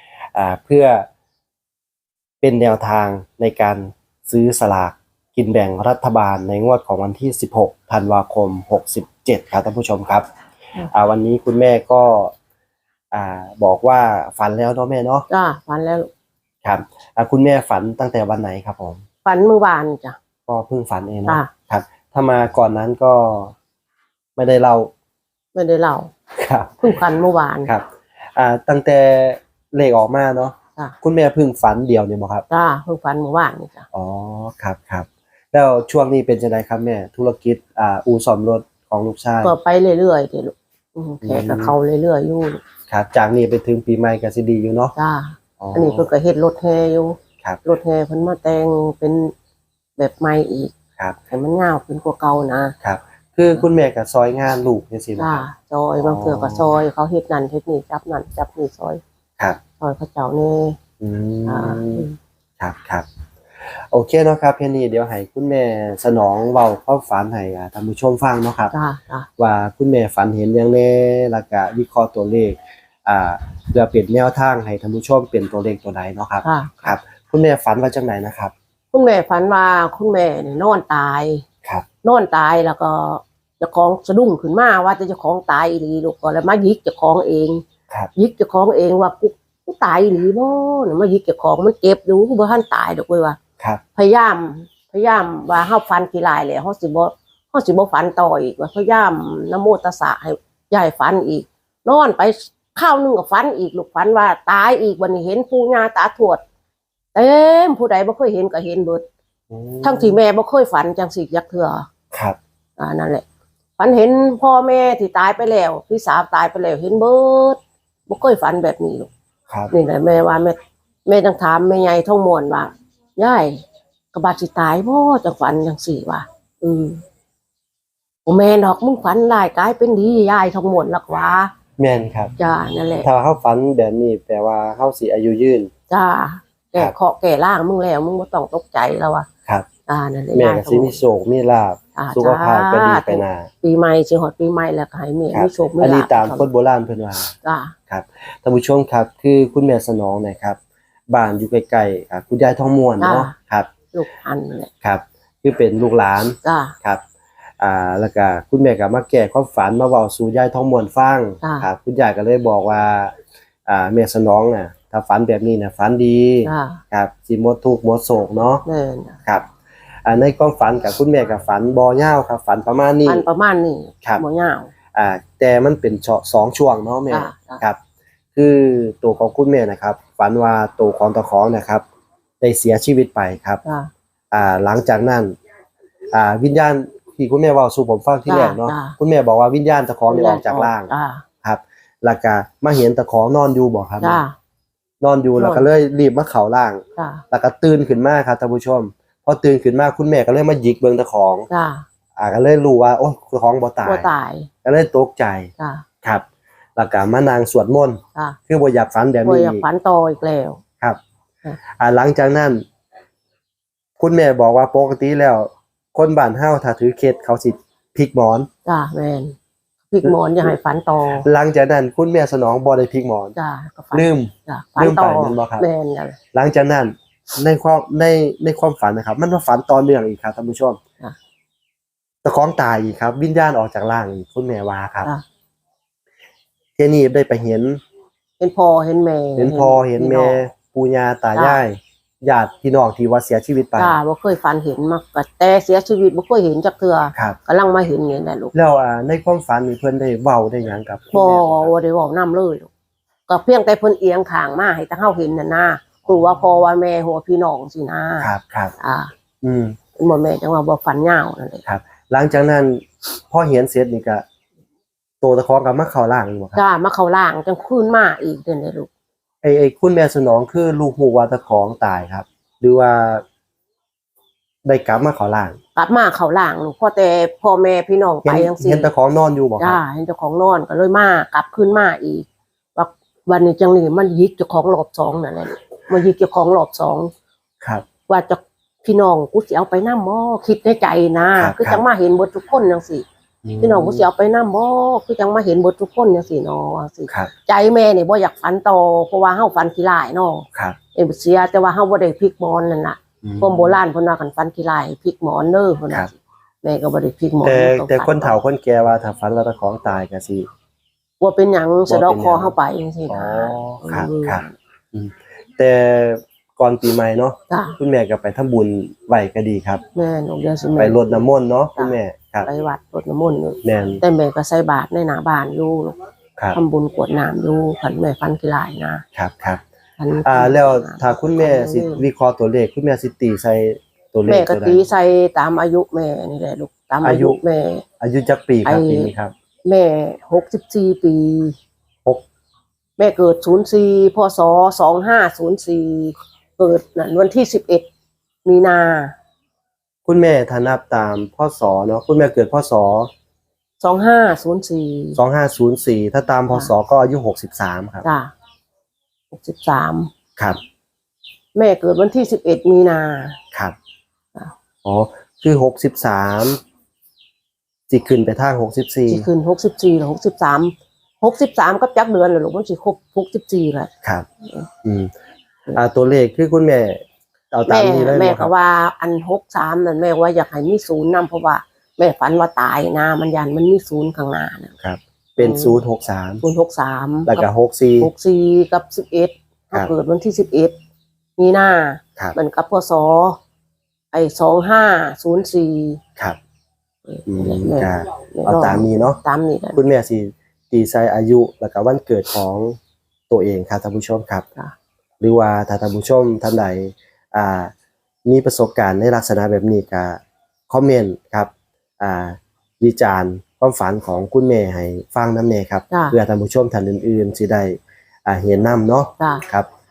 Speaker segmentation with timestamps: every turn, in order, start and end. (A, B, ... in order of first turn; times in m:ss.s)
0:00.3-0:01.1 A
0:02.4-0:10.3 A
0:10.9-0:12.3 A
0:13.1-0:15.3 A
0:15.3-0:16.1 B
0:16.6-0:19.0 A
0:19.2-0:20.2 B
0:20.5-0:23.5 A
0:24.4-0:24.9 A
0:25.5-0:26.1 B
0:26.4-0:27.0 A
0:26.8-0:27.7 B
0:27.6-0:32.4 A
0:32.5-0:33.8 B
0:33.9-0:39.5 A
0:39.4-0:42.6 B
0:41.2-0:41.7 A
0:42.9-0:44.9 A
0:44.9-0:49.3 B
0:45.6-0:46.1 A
0:50.0-0:50.7 B
0:51.3-0:52.7 B
0:52.8-0:55.4 A
0:55.2-0:59.0 B
0:56.0-0:56.6 A
0:59.8-1:00.8 B
1:01.0-1:02.0 A
1:01.4-1:02.2 B
1:02.6-1:03.1 A
1:03.6-1:08.7 A
1:08.7-1:09.3 B
1:09.4-1:18.5 A
1:16.4-1:17.0 B
1:18.9-1:21.4 B
1:22.0-1:27.6 B
1:28.2-1:33.4 B
1:34.0-1:46.4 B
1:47.1-1:49.0 B
1:49.5-1:50.2 A
1:49.8-1:51.9 B
1:52.1-1:52.4 A
1:52.8-1:53.2 B
1:53.8-1:59.1 B
1:59.7-2:07.0 B
2:08.2-2:11.5 B
2:11.8-2:12.3 A
2:12.4-2:13.1 B
2:13.0-2:15.7 A
2:15.9-2:19.3 B
2:19.9-2:21.0 B
2:20.3-2:23.5 A
2:22.0-2:26.5 B
2:25.3-2:27.3 A
2:27.4-2:27.7 B
2:27.9-2:30.6 A
2:31.1-2:33.7 A
2:33.0-2:33.3 B
2:33.9-2:34.7 B
2:34.8-2:37.0 A
2:36.4-2:36.8 B
2:37.6-2:43.1 A
2:41.4-2:41.7 B
2:43.6-2:48.6 A
2:46.4-2:46.8 B
2:48.6-2:49.2 B
2:50.0-2:53.3 A
2:53.0-2:54.7 B
2:54.9-2:57.8 A
2:57.1-2:57.6 B
2:58.3-3:01.8 A
3:02.4-3:03.6 A
3:03.6-3:03.9 B
3:04.3-3:05.3 A
3:06.1-3:10.9 A
3:08.3-3:09.0 B
3:10.1-3:11.2 B
3:11.4-3:14.2 A
3:14.0-3:14.3 B
3:15.0-3:21.5 A
3:15.4-3:15.7 B
3:17.0-3:17.2 B
3:21.5-3:21.8 B
3:22.2-3:24.1 A
3:23.8-3:24.5 B
3:24.6-3:25.5 A
3:25.6-3:25.8 B
3:26.8-3:29.6 A
3:29.2-3:30.6 B
3:31.8-3:32.6 A
3:34.0-3:38.5 A
3:38.6-3:39.4 B
3:39.9-3:41.2 B
3:40.0-3:40.5 A
3:41.2-3:43.3 A
3:43.4-3:46.2 B
3:43.9-3:45.7 A
3:46.3-3:50.8 A
3:52.2-3:55.1 A
3:56.8-3:57.8 A
3:58.4-4:00.4 B
3:59.4-4:04.0 A
4:01.3-4:01.6 B
4:03.8-4:08.5 B
4:08.5-4:11.7 A
4:11.1-4:12.7 B
4:13.3-4:19.1 B
4:16.1-4:16.3 A
4:18.2-4:18.7 A
4:19.4-4:19.8 A
4:20.0-4:21.6 B
4:21.6-4:24.2 A
4:25.2-4:26.6 A
4:26.5-4:28.9 B
4:29.4-4:33.2 A
4:34.6-4:35.6 A
4:35.8-4:38.9 B
4:38.2-4:39.8 A
4:39.6-4:47.1 B
4:48.1-4:53.0 B
4:51.4-4:51.8 A
4:53.4-4:54.0 A
4:53.6-5:08.4 B
5:03.2-5:03.8 A
5:07.4-5:10.5 A
5:11.2-5:14.5 B
5:11.9-5:12.5 A
5:13.1-5:19.8 A
5:17.5-5:17.8 B
5:19.9-5:26.0 B
5:20.8-5:22.5 A
5:23.6-5:24.0 A
5:26.5-5:29.0 B
5:29.1-5:29.6 A
5:30.0-5:32.0 B
5:30.2-5:34.9 A
5:34.3-5:37.8 B
5:37.0-5:37.4 A
5:38.0-5:39.3 A
5:38.6-5:39.1 B
5:39.6-5:41.6 B
5:43.0-5:47.9 B
5:48.4-5:49.1 B
5:50.0-5:53.1 A
5:53.8-5:55.2 B
5:55.2-5:58.0 A
5:58.0-5:58.3 B
5:59.3-6:00.1 B
6:01.5-6:03.4 B
6:04.8-6:06.6 A
6:07.9-6:09.3 A
6:09.1-6:13.9 B
6:14.4-6:14.7 B
6:14.8-6:15.1 A
6:15.7-6:18.5 A
6:17.7-6:24.7 B
6:24.8-6:26.4 A
6:25.4-6:25.8 B
6:26.4-6:27.5 B
6:27.2-6:28.1 A
6:28.0-6:30.8 B
6:31.4-6:33.4 B
6:34.1-6:36.0 B
6:37.1-6:39.8 B
6:37.3-6:39.2 A
6:39.7-6:42.8 A
6:43.3-6:44.4 A
6:45.2-6:47.7 A
6:48.2-6:59.7 A
6:55.9-6:56.2 B
6:59.2-6:59.4 B